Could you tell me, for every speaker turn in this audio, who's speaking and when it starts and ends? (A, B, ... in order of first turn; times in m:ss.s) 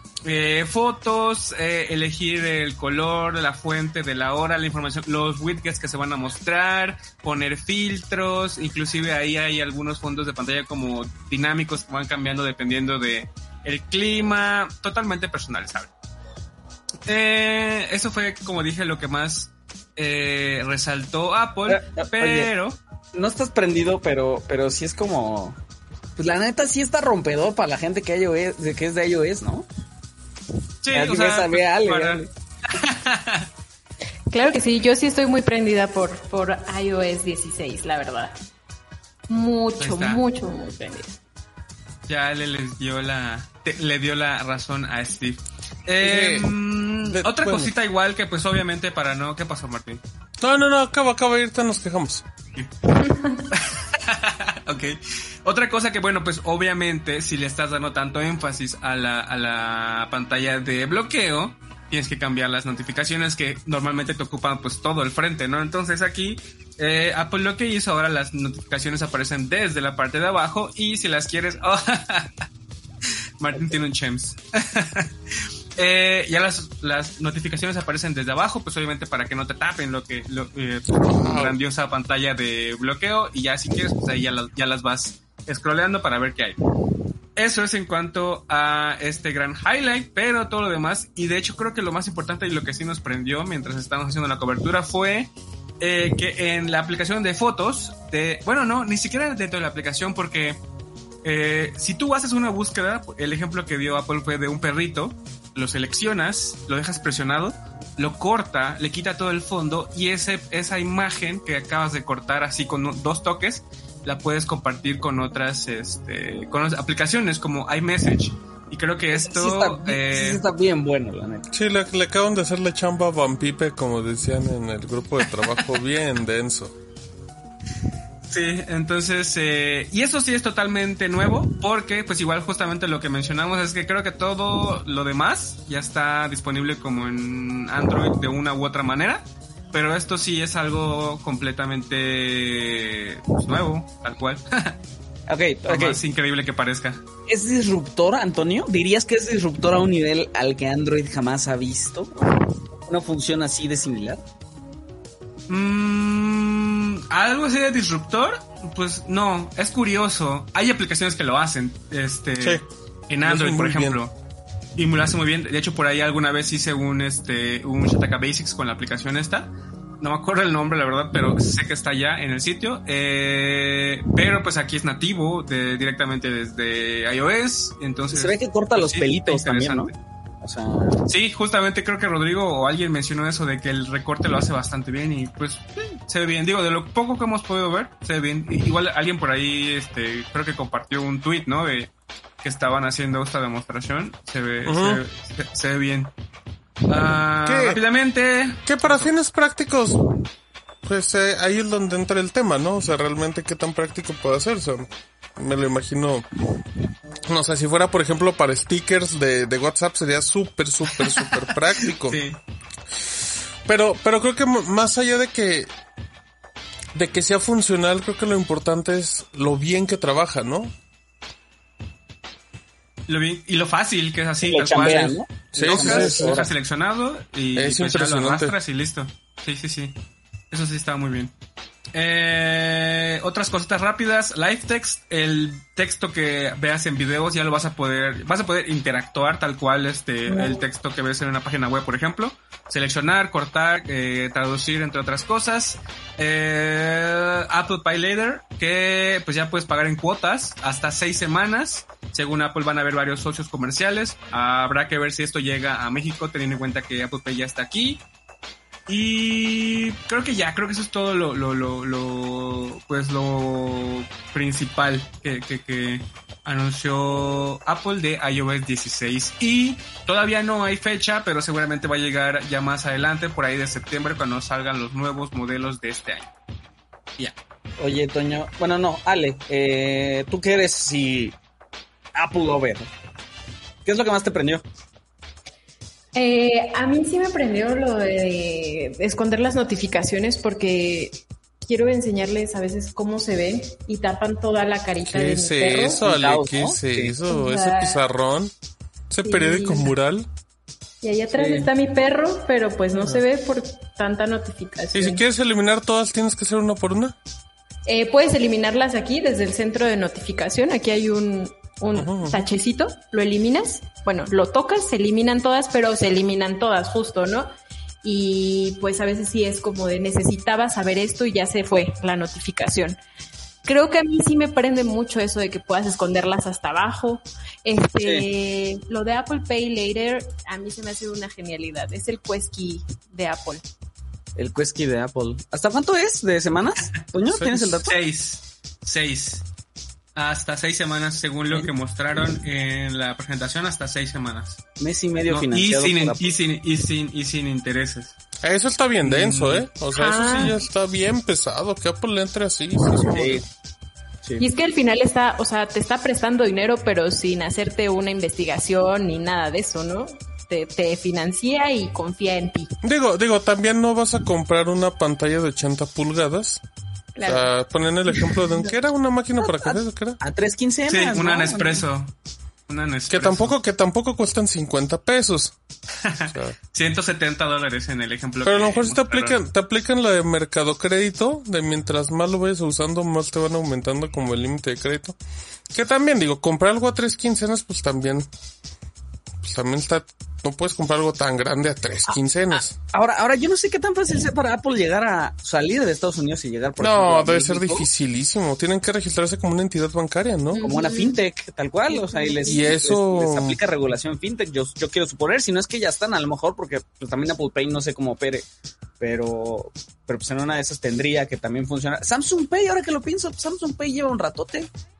0:00.2-0:15.9 A
0:17.1-0:22.8 A
0:21.7-0:22.5 B
0:23.1-0:25.6 B
0:26.2-0:29.7 B
0:30.8-0:33.5 A
0:30.9-0:32.3 B
0:34.3-0:38.3 C
0:39.3-0:41.2 C
0:39.8-0:40.2 A
0:42.0-0:50.0 A
0:46.0-0:47.7 D
0:50.4-0:52.2 D
0:52.6-0:52.8 A
0:53.0-0:53.3 C
0:53.5-1:12.4 A
1:13.4-1:15.1 A
1:13.5-1:13.8 B
1:15.8-1:26.6 A
1:20.9-1:21.6 D
1:27.4-1:40.6 A
1:41.2-2:00.4 A
1:59.1-2:01.4 B
2:01.5-2:06.7 D
2:08.2-2:24.8 A
2:25.3-2:26.0 B
2:25.6-2:27.0 A
2:27.3-2:32.3 B
2:32.9-2:34.2 B
2:35.5-2:44.1 A
2:42.4-2:42.6 D
2:43.2-2:44.0 D
2:44.8-2:59.9 A
2:58.1-3:01.0 B
3:01.1-3:16.1 A
3:14.6-3:15.0 D
3:16.9-3:19.1 A
3:17.4-3:17.8 D
3:18.6-3:20.0 D
3:20.8-3:26.2 D
3:27.3-3:32.2 D
3:32.0-3:32.4 A
3:32.9-3:35.7 D
3:36.9-3:40.7 D
3:43.1-3:50.0 A
3:44.4-3:46.5 B
3:45.5-3:46.5 D
3:47.5-3:48.5 D
3:50.5-3:51.3 A
3:51.9-4:18.0 A
4:00.3-4:00.6 C
4:18.9-4:36.3 A
4:37.8-4:41.4 B
4:42.1-4:42.9 B
4:43.8-4:44.6 B
4:46.1-4:56.0 C
4:55.0-4:58.5 D
4:56.0-4:57.2 B
4:57.2-4:58.0 C
4:59.1-5:00.3 D
4:59.2-4:59.9 C
5:01.0-5:05.2 C
5:01.3-5:01.7 B
5:03.0-5:03.2 D
5:04.9-5:07.1 D
5:07.8-5:17.5 C
5:11.9-5:12.4 D
5:18.0-5:23.0 C
5:23.6-5:33.6 C
5:34.4-5:37.9 B
5:37.3-5:37.8 D
5:37.8-5:39.4 A
5:40.1-5:44.6 A
5:44.8-5:46.3 B
5:45.2-5:48.1 A
5:48.4-5:53.4 D
5:49.0-5:49.7 A
5:49.9-5:50.6 C
5:53.1-5:53.4 B
5:54.4-6:02.7 C
6:02.8-6:06.6 D
6:07.2-6:07.5 C
6:07.2-6:10.2 D
6:09.4-6:11.8 B
6:10.9-6:12.1 A
6:12.7-6:13.6 A
6:13.1-6:15.6 D
6:16.0-6:19.4 A
6:16.2-6:16.6 D
6:18.4-6:25.2 D
6:25.7-6:28.3 D
6:29.4-6:32.8 D
6:32.6-6:37.9 B
6:36.8-6:40.6 D
6:40.5-6:41.2 C
6:40.6-6:48.4 B
6:41.9-6:42.8 C
6:42.4-6:43.6 D
6:49.0-6:54.7 B